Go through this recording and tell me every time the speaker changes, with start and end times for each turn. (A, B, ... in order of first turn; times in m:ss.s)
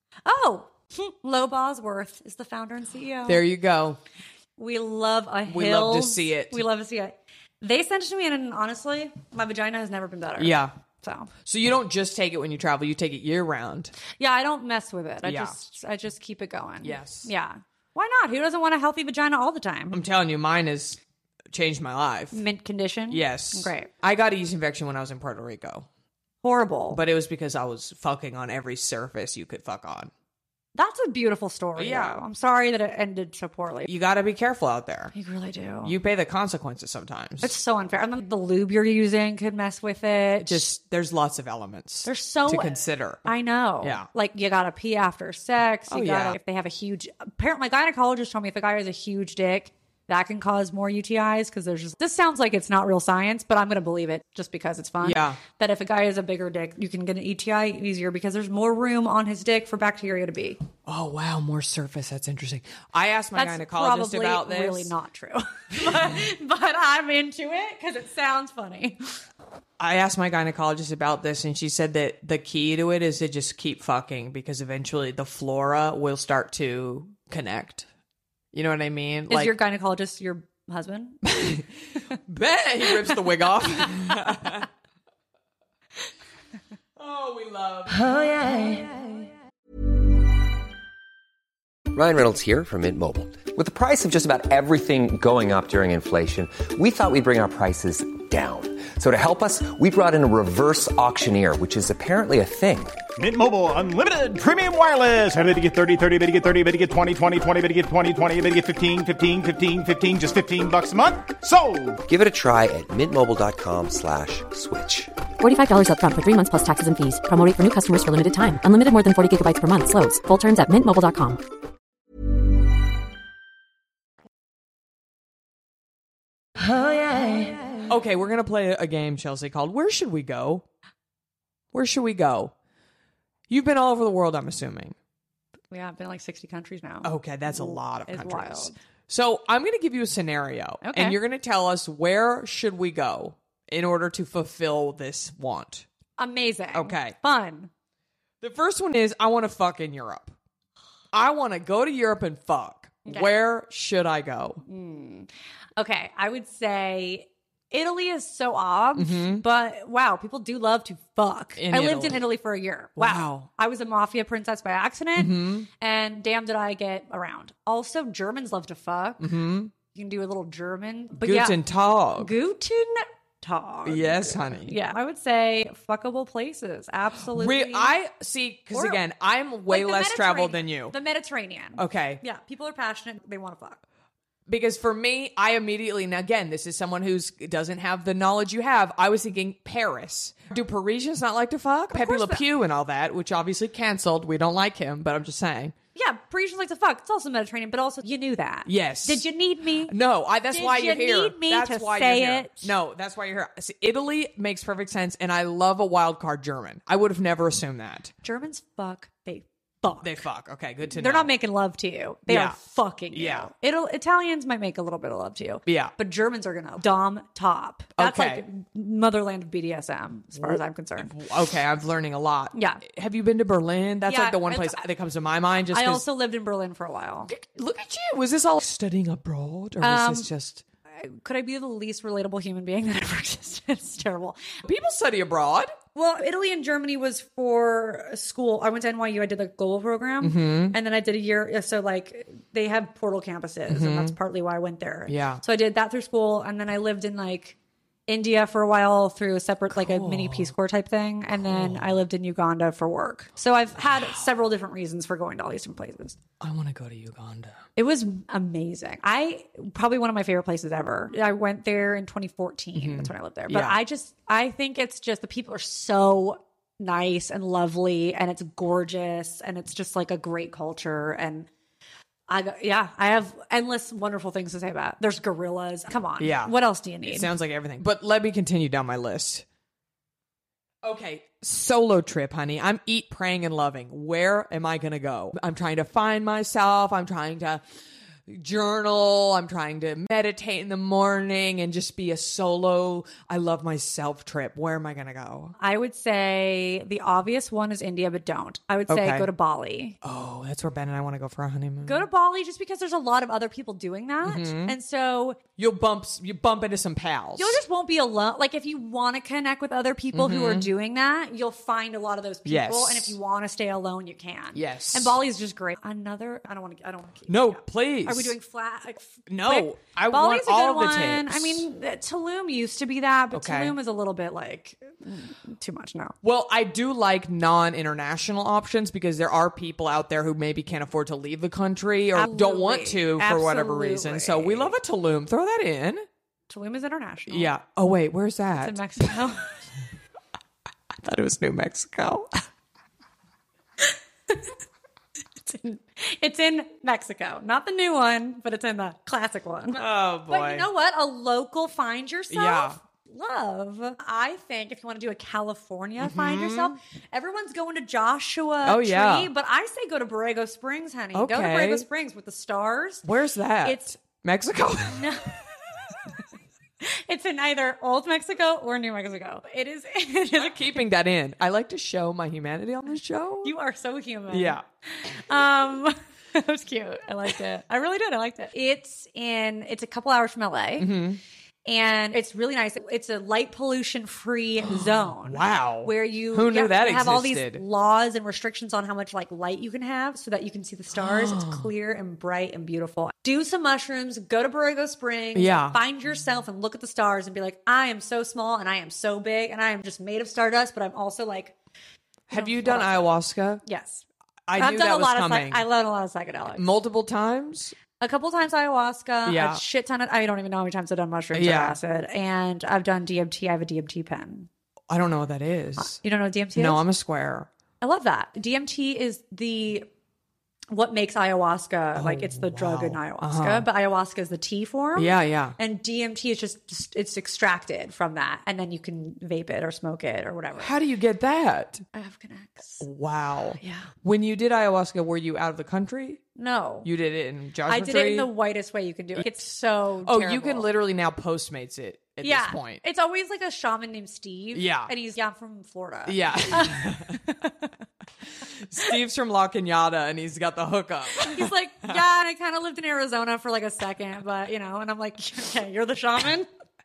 0:00.2-0:03.4 A
0:03.2-0:04.0 B
0:04.6-0:11.3 A
0:05.5-0:06.6 B
0:10.4-0:10.7 B
0:11.4-0:13.9 B
0:14.2-0:20.0 A
0:15.2-0:15.6 B
0:16.8-0:17.3 B
0:19.9-0:21.0 B
0:21.5-0:22.4 B
0:22.3-0:23.9 A
0:23.1-0:25.9 B
0:26.4-0:27.0 A
0:26.9-0:30.1 B
0:30.7-0:33.9 A
0:31.8-0:32.2 B
0:33.8-0:35.1 B
0:35.1-0:36.0 A
0:35.8-0:37.5 B
0:37.4-0:40.7 A
0:40.4-0:43.2 B
0:42.0-1:00.6 A
0:43.8-0:44.1 B
0:45.9-0:46.4 B
0:55.0-0:55.4 B
1:00.8-1:04.9 B
1:03.3-1:09.0 A
1:09.8-1:17.9 B
1:18.5-1:19.6 B
1:19.3-1:21.2 A
1:21.2-1:21.7 B
1:22.2-1:24.7 B
1:23.9-1:24.5 A
1:27.0-1:28.9 B
1:31.9-1:43.0 C
1:43.2-1:52.0 D
1:52.0-1:55.1 C
1:55.4-2:01.4 E
2:07.8-2:10.6 B
2:11.7-2:12.5 B
2:13.5-2:15.0 B
2:15.7-2:18.7 A
2:17.0-2:25.8 B
2:20.8-2:21.2 A
2:26.2-2:27.7 A
2:26.7-2:27.2 B
2:28.4-2:30.3 B
2:31.1-2:34.6 B
2:33.0-2:33.3 A
2:34.6-2:51.6 A
2:39.0-2:39.4 B
2:41.6-2:42.2 B
2:43.0-2:43.5 B
2:45.2-2:45.7 B
2:49.2-2:49.7 B
2:51.2-2:52.3 B
2:52.2-2:58.0 A
2:53.8-2:54.8 B
2:57.3-3:00.9 B
2:58.7-2:59.0 A
2:59.7-3:03.8 A
3:01.8-3:02.2 B
3:04.5-3:15.7 B
3:11.9-3:12.4 A
3:16.0-3:19.9 A
3:18.6-3:19.3 B
3:19.9-3:28.1 B
3:20.5-3:22.7 A
3:28.2-3:30.2 A
3:30.0-3:31.3 B
3:30.9-3:41.1 A
3:32.3-3:32.6 B
3:33.1-3:33.5 B
3:35.6-3:35.9 B
3:38.0-3:38.4 B
3:40.4-3:46.0 B
3:42.5-3:42.8 A
3:44.0-3:44.8 A
3:45.7-3:47.3 A
3:47.3-3:50.6 B
3:49.8-3:50.3 A
3:50.9-3:54.5 A
3:54.6-3:55.7 B
3:55.9-4:16.2 A
4:00.2-4:00.8 B
4:03.7-4:04.2 B
4:05.1-4:05.4 B
4:09.7-4:10.5 B
4:11.3-4:12.0 B
4:16.4-4:17.6 B
4:17.8-4:31.5 A
4:22.7-4:23.8 B
4:32.3-4:37.3 A
4:36.2-4:39.4 B
4:40.8-4:47.6 B
4:48.3-4:55.5 B
4:55.6-5:00.0 A
4:58.9-4:59.3 B
5:00.0-5:02.0 B
5:01.8-5:05.4 A
5:04.2-5:04.7 B
5:05.6-5:07.6 B
5:07.4-5:26.2 A
5:10.1-5:10.7 B
5:12.4-5:13.2 B
5:14.5-5:15.2 B
5:17.3-5:18.4 B
5:19.3-5:21.7 B
5:23.3-5:23.8 B
5:26.2-5:36.0 B
5:32.1-5:34.7 A
5:36.5-5:37.5 A
5:37.3-5:39.2 B
5:38.6-5:39.5 A
5:41.0-5:42.4 B
5:45.4-6:03.0 A
5:49.7-5:50.7 B
5:52.3-5:52.8 B
5:56.0-5:56.8 B
5:58.6-5:59.3 B
6:01.1-6:01.9 B
6:03.0-6:05.1 B
6:03.6-6:03.9 A
6:04.9-6:05.3 A
6:06.8-6:10.8 A
6:10.3-6:13.5 B
6:13.4-6:21.0 A
6:14.3-6:14.6 B
6:20.8-6:21.2 B
6:21.7-6:41.5 A
6:24.7-6:27.6 B
6:30.9-6:31.7 B
6:35.3-6:35.8 B
6:42.3-6:43.6 B
6:42.3-6:43.0 A
6:43.6-6:46.6 A
6:44.4-6:45.6 B
6:46.5-6:47.8 B
6:48.0-6:54.5 A
6:49.2-6:49.6 B
6:51.3-6:51.8 B
6:54.9-6:56.0 B
6:55.8-6:56.8 A
6:56.5-6:57.5 B
6:57.8-6:59.9 A
7:00.7-7:10.7 A
7:01.9-7:03.6 B
7:05.0-7:05.6 B
7:10.6-7:11.8 B
7:11.9-7:12.8 A
7:12.8-7:16.2 B
7:13.6-7:13.9 A
7:16.4-7:16.9 A
7:16.8-7:18.3 B
7:17.7-7:20.7 A
7:19.1-7:19.4 B
7:20.0-7:22.8 B
7:22.2-7:27.7 A
7:24.5-7:24.9 B
7:26.0-7:27.2 B
7:28.5-7:32.0 B
7:31.2-7:36.5 A